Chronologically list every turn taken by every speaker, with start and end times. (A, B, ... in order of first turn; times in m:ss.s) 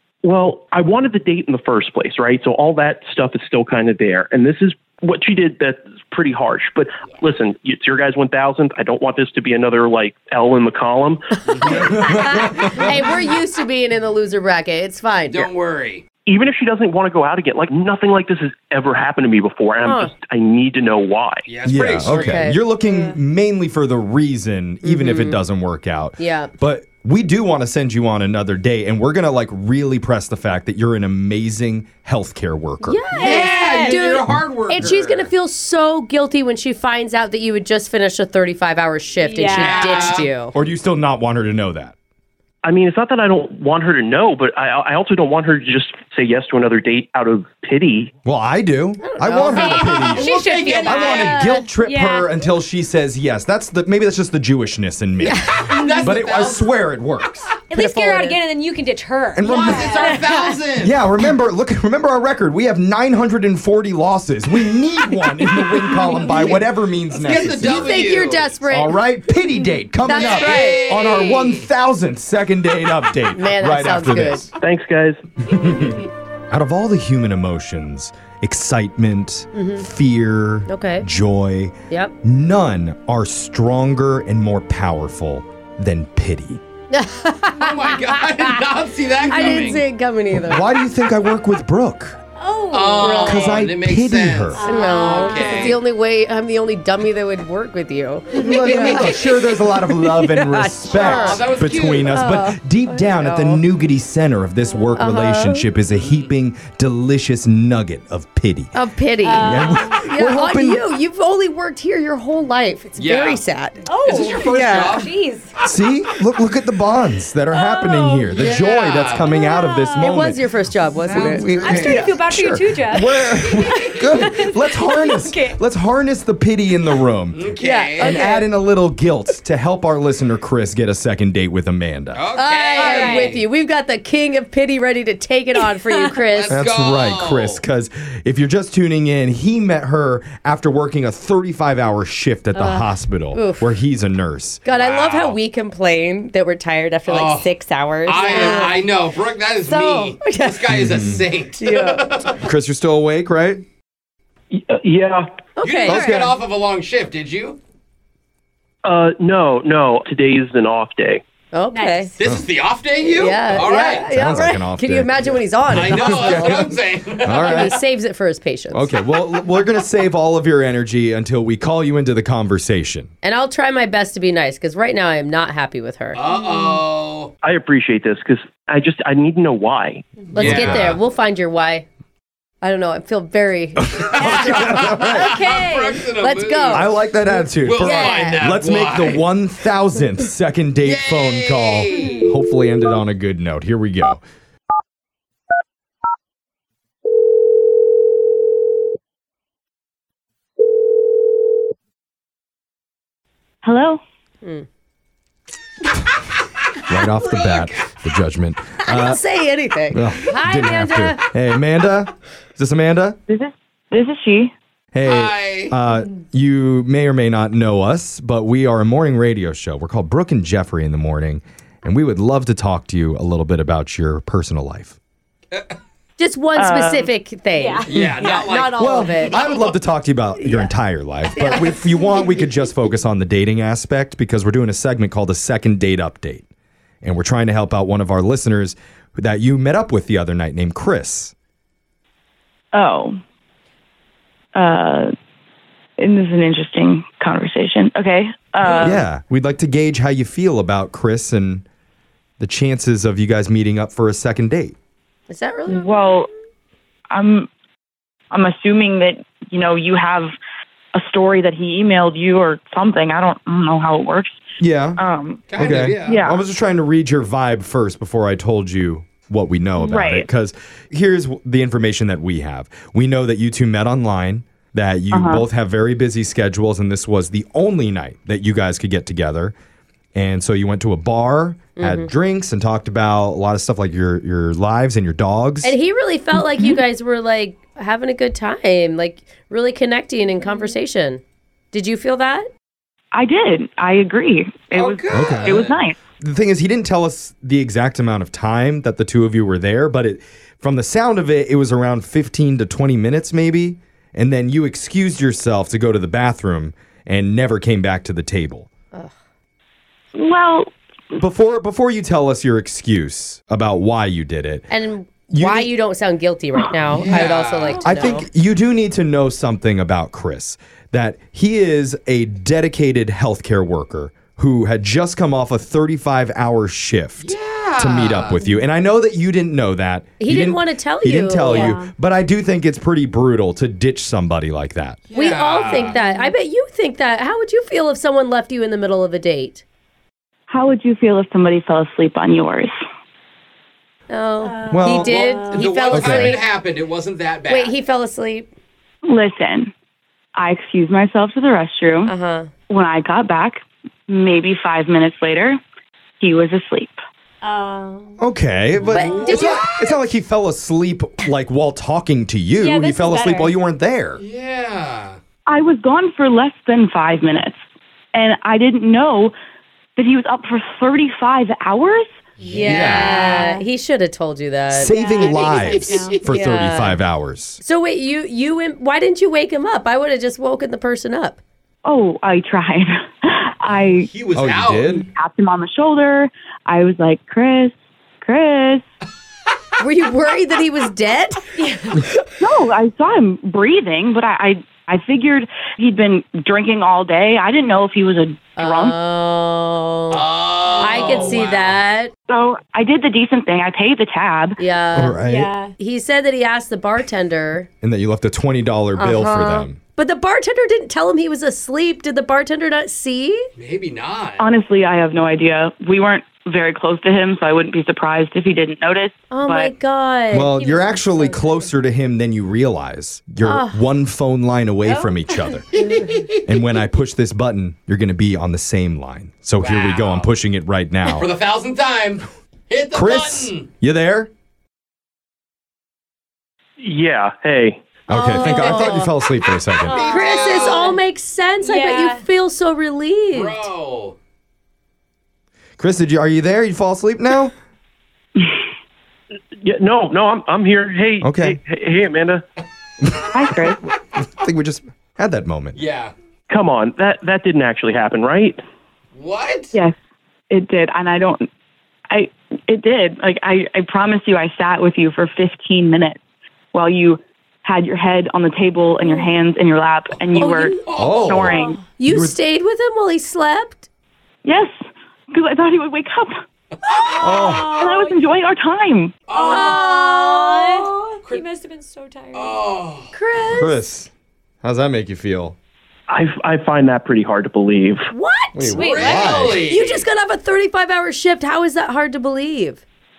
0:00.2-0:11.2 A
0:11.5-0:11.8 B
0:11.5-0:15.5 C
0:11.6-0:13.0 D
0:15.3-0:16.0 B
0:16.3-0:21.4 A
0:19.8-0:20.1 C
0:21.5-0:22.6 B
0:21.7-0:33.0 D
0:22.0-0:22.6 C
0:24.8-0:25.4 C
0:26.2-0:26.5 C
0:32.8-0:40.5 C
0:33.1-0:35.3 B
0:33.2-0:34.0 E
0:39.2-0:40.0 E
0:39.5-0:40.3 B
0:40.5-0:42.0 D
0:42.6-0:48.1 A
0:48.2-0:57.5 D
0:49.0-0:50.2 C
0:49.6-0:52.3 E
0:50.1-0:51.5 B
0:55.2-0:55.6 C
0:55.5-0:56.7 B
0:57.7-1:00.6 E
0:57.7-0:58.4 C
0:59.4-1:00.2 D
0:59.4-1:01.0 B
1:00.8-1:08.0 D
1:07.1-1:08.6 B
1:07.5-1:09.0 C
1:08.7-1:14.5 D
1:10.0-1:10.9 C
1:10.1-1:11.6 B
1:13.3-1:14.5 C
1:14.6-1:15.2 A
1:15.4-1:26.6 D
1:19.6-1:19.9 C
1:20.7-1:21.1 C
1:21.9-1:22.2 C
1:26.9-1:28.4 C
1:27.5-1:29.8 B
1:29.2-1:30.6 C
1:30.4-1:32.2 D
1:32.4-1:33.6 E
1:32.7-1:35.8 B
1:33.0-1:33.6 C
1:33.2-1:34.6 D
1:34.6-1:35.7 E
1:34.6-1:41.4 C
1:38.3-1:48.8 D
1:40.9-1:42.2 B
1:42.0-1:43.6 C
1:45.0-1:45.7 C
1:46.0-1:46.3 B
1:48.7-1:55.1 C
1:49.2-1:50.0 E
1:49.4-1:50.8 D
1:53.0-1:53.4 B
1:53.9-1:55.5 E
1:54.0-1:55.1 B
1:55.6-2:00.4 D
1:57.5-1:58.3 E
1:58.3-1:59.3 B
1:58.4-1:58.7 C
1:59.3-2:01.9 C
1:59.7-2:00.1 E
2:01.1-2:12.3 D
2:01.1-2:01.4 B
2:01.6-2:05.6 E
2:07.3-2:08.3 B
2:07.6-2:08.5 C
2:12.2-2:13.4 B
2:12.4-2:16.6 C
2:12.8-2:13.4 E
2:15.7-2:16.2 E
2:16.3-2:17.6 B
2:16.5-2:24.6 D
2:23.3-2:23.7 C
2:24.6-2:28.9 C
2:24.7-2:25.4 B
2:27.1-2:27.5 B
2:28.0-2:32.5 B
2:29.6-2:32.1 C
2:30.7-2:31.2 D
2:32.3-2:33.6 D
2:34.5-2:35.3 A
2:35.6-2:36.3 C
2:35.6-2:37.6 B
2:35.8-2:36.4 D
2:38.8-2:41.2 A
2:41.5-2:42.1 C
2:41.7-2:42.1 E
2:42.1-2:44.4 B
2:43.0-2:48.9 C
2:43.5-2:46.7 D
2:45.7-2:47.8 B
2:47.2-2:47.8 D
2:48.7-2:53.1 D
2:53.2-2:56.2 C
2:56.1-2:57.3 B
2:57.4-3:00.2 A
3:00.2-3:01.9 C
3:00.3-3:01.0 D
3:00.3-3:01.0 B
3:02.6-3:06.9 C
3:04.0-3:05.4 D
3:04.0-3:06.9 B
3:06.7-3:14.2 D
3:07.6-3:09.3 B
3:07.8-3:08.4 C
3:10.8-3:12.3 B
3:23.6-3:24.0 F
3:26.9-3:29.2 D
3:27.4-3:27.7 B
3:28.8-3:31.2 C
3:29.9-3:33.2 D
3:33.3-3:34.5 F
3:34.9-3:45.0 D
3:35.0-3:35.8 B
3:46.2-3:49.4 C
3:46.6-3:47.1 F
3:47.6-3:47.9 E
3:47.8-3:49.7 B
3:48.8-3:56.5 D
3:50.4-3:50.7 C
3:51.4-3:51.8 C
3:57.0-4:01.3 D
4:02.7-4:03.2 F
4:04.6-4:05.1 F
4:06.0-4:09.0 F
4:08.7-4:09.0 C
4:08.7-4:11.7 D
4:12.4-4:14.8 D
4:15.3-4:16.2 C
4:15.7-4:16.3 F
4:17.1-4:17.5 F
4:18.3-4:20.4 F
4:20.9-4:24.4 F
4:24.6-4:25.0 D
4:25.0-4:25.4 F
4:25.5-4:26.3 B
4:25.6-4:39.6 D
4:26.0-4:26.4 F
4:29.8-4:30.3 F
4:35.1-4:35.4 F
4:40.2-4:45.7 D
4:41.8-4:42.1 C
4:45.6-4:52.5 C
4:53.1-4:56.0 F
4:54.7-4:55.8 B
4:55.1-4:55.7 D
4:56.2-5:08.7 D
5:10.2-5:10.7 F
5:11.2-5:14.7 D
5:14.7-5:18.3 C
5:15.3-5:15.7 D
5:16.8-5:17.8 B
5:17.8-5:35.0 D
5:27.2-5:28.4 B
5:30.2-5:31.8 C
5:31.7-5:31.9 E
5:35.1-5:36.0 B
5:35.1-5:39.6 C
5:40.5-5:42.7 F
5:44.1-5:46.5 C
5:44.4-5:45.6 E
5:44.7-5:45.2 D
5:44.9-5:47.8 B
5:45.9-5:46.4 D
5:47.5-5:48.5 C
5:49.0-5:49.7 F
5:50.4-5:52.2 F
5:52.1-5:52.5 C
5:52.7-5:55.6 F
5:56.2-5:57.0 F
5:57.4-5:58.2 E
5:58.2-6:04.2 D
5:58.8-5:59.9 C
5:58.9-5:59.9 B
6:02.6-6:03.6 E
6:04.2-6:05.2 B
6:05.5-6:07.6 F
6:08.1-6:09.3 F
6:10.0-6:12.1 F
6:12.4-6:13.5 B
6:12.5-6:14.9 C
6:12.6-6:13.4 D
6:12.8-6:13.7 E
6:14.7-6:17.6 D
6:14.8-6:16.2 E
6:15.5-6:17.0 C
6:15.5-6:16.2 B
6:17.6-6:21.4 C
6:21.8-6:24.1 F
6:23.6-6:24.9 B
6:24.3-6:25.1 D
6:24.8-6:28.8 F
6:29.8-6:31.5 C
6:31.6-6:32.0 E
6:32.3-6:39.0 F
6:38.6-6:40.3 C
6:40.1-6:41.8 B
6:40.8-6:42.1 C
6:42.3-6:44.6 F
6:44.6-6:45.2 C
6:45.0-6:45.5 D
6:45.2-6:45.7 E
6:45.8-6:47.7 C
6:47.8-6:49.8 D
6:49.0-6:53.5 C
6:53.6-6:54.5 B
6:54.4-6:59.7 F
6:59.3-7:00.5 C
7:00.3-7:05.6 D
7:00.5-7:01.7 E
7:03.4-7:03.8 C
7:05.7-7:06.4 B
7:06.4-7:11.3 D
7:09.6-7:10.3 B
7:11.0-7:13.7 B
7:12.9-7:14.3 D
7:16.8-7:17.8 A
7:18.1-7:20.0 D
7:18.1-7:19.1 C
7:19.8-7:21.0 B
7:19.8-7:20.9 E
7:20.0-7:23.7 C
7:21.6-7:22.2 E
7:23.3-7:24.2 B
7:25.8-7:27.5 D
7:29.6-7:32.4 A
7:31.2-7:31.6 D
7:33.3-7:33.8 F
7:34.2-7:35.8 D
7:35.7-7:36.1 B
7:36.5-7:38.6 A
7:39.2-7:39.8 B
7:40.5-7:41.5 F
7:42.1-7:46.2 F
7:46.7-7:51.8 F
7:50.2-7:51.7 B
7:50.4-7:50.8 C
7:50.9-7:52.4 D
7:51.9-7:53.9 C
7:54.4-7:54.7 F
7:55.3-7:56.3 F
7:56.8-7:57.3 B
7:56.9-7:58.3 E
7:57.2-7:57.9 D
7:57.7-7:59.2 F
7:59.3-7:59.9 B
7:59.3-8:02.7 E
7:59.4-8:01.2 C
8:02.3-8:03.1 B
8:03.1-8:03.8 C
8:03.6-8:04.1 D
8:04.6-8:05.6 D
8:06.1-8:08.0 A
8:08.1-8:12.8 C
8:08.5-8:09.6 D
8:08.8-8:10.1 B
8:08.8-8:09.4 E